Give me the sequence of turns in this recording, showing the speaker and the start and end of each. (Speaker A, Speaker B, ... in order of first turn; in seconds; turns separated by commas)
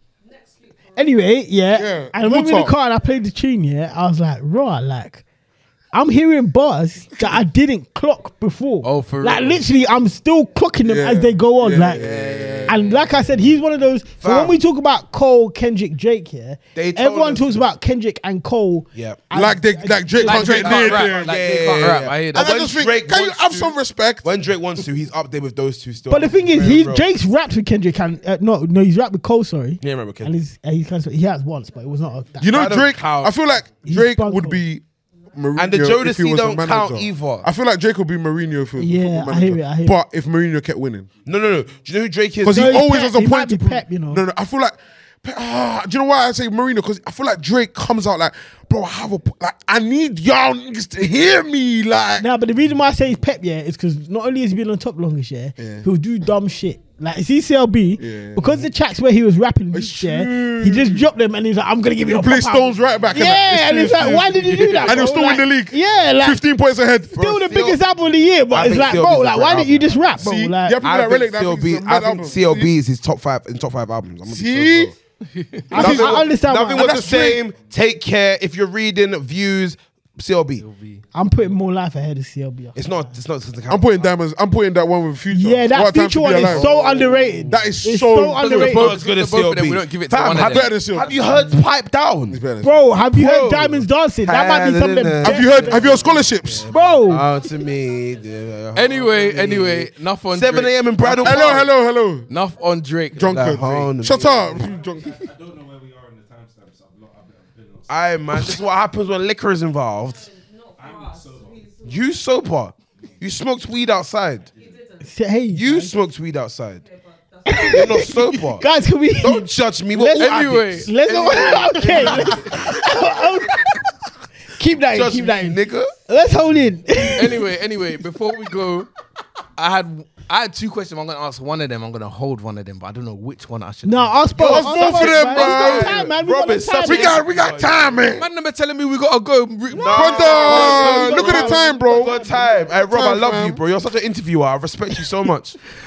Speaker A: 0.2-1.5, Speaker B: 0.9-5.2, Speaker C: 1.7-2.7, Speaker B: 5.9-12.0, Speaker D: 8.8-9.6, Speaker C: 10.8-12.7, Speaker D: 11.9-13.0, Speaker E: 11.9-12.7, Speaker B: 12.7-21.1, Speaker E: 14.2-14.6, Speaker E: 16.7-17.6, Speaker E: 18.9-19.2, Speaker C: 19.3-21.3, Speaker D: 20.2-22.6, Speaker E: 20.8-27.1, Speaker C: 22.3-24.3, Speaker B: 26.1-32.6, Speaker E: 29.8-30.3, Speaker C: 32.4-41.1, Speaker E: 32.4-33.4, Speaker B: 33.8-34.6, Speaker E: 35.5-37.5, Speaker B: 38.8-40.0, Speaker E: 41.2-42.8, Speaker C: 42.4-52.3, Speaker B: 42.5-44.2, Speaker B: 52.2-66.4, Speaker C: 55.6-55.9, Speaker C: 58.0-58.7, Speaker C: 59.7-61.1, Speaker C: 62.1-67.2, Speaker F: 64.3-64.9, Speaker E: 67.1-67.8, Speaker B: 67.2-70.8, Speaker E: 68.5-69.9, Speaker F: 69.5-70.2, Speaker C: 70.2-72.7, Speaker E: 70.8-74.9, Speaker C: 74.2-74.9, Speaker D: 75.3-75.7, Speaker B: 75.7-77.0, Speaker C: 75.7-77.5, Speaker E: 75.7-80.6, Speaker D: 80.6-81.0, Speaker B: 81.1-82.9, Speaker E: 82.7-83.9, Speaker C: 83.7-86.7, Speaker B: 85.3-88.9, Speaker E: 86.3-87.6, Speaker C: 87.5-88.7, Speaker D: 88.4-90.8, Speaker E: 88.5-92.4, Speaker C: 90.3-91.1, Speaker B: 91.3-91.5, Speaker C: 92.3-92.9, Speaker B: 92.6-97.2, Speaker E: 93.1-101.7, Speaker C: 95.2-96.7, Speaker F: 96.5-97.0, Speaker A: 97.1-98.3, Speaker D: 98.7-101.6, Speaker C: 101.0-102.3, Speaker D: 102.3-103.5, Speaker C: 103.1-105.2, Speaker E: 103.3-104.7, Speaker F: 104.3-108.2, Speaker E: 107.9-110.2, Speaker A: 110.0-112.3, Speaker F: 110.8-111.8, Speaker E: 111.8-114.5, Speaker A: 114.5-115.2, Speaker F: 114.5-114.8, Speaker B: 115.0-115.9, Speaker E: 115.5-116.8, Speaker A: 116.8-118.2, Speaker B: 117.5-123.9, Speaker E: 117.7-118.7, Speaker E: 119.2-120.9, Speaker D: 120.2-123.0, Speaker E: 121.9-122.3, Speaker B: 124.5-127.5, Speaker E: 124.9-125.9, Speaker D: 127.2-128.9, Speaker D: 129.6-134.2, Speaker B: 133.8-137.2, Speaker E: 134.4-138.0, Speaker C: 134.4-136.1, Speaker C: 136.8-138.3, Speaker D: 138.1-140.7, Speaker B: 139.7-142.4, Speaker E: 139.7-145.6, Speaker C: 139.9-142.2, Speaker C: 142.8-143.6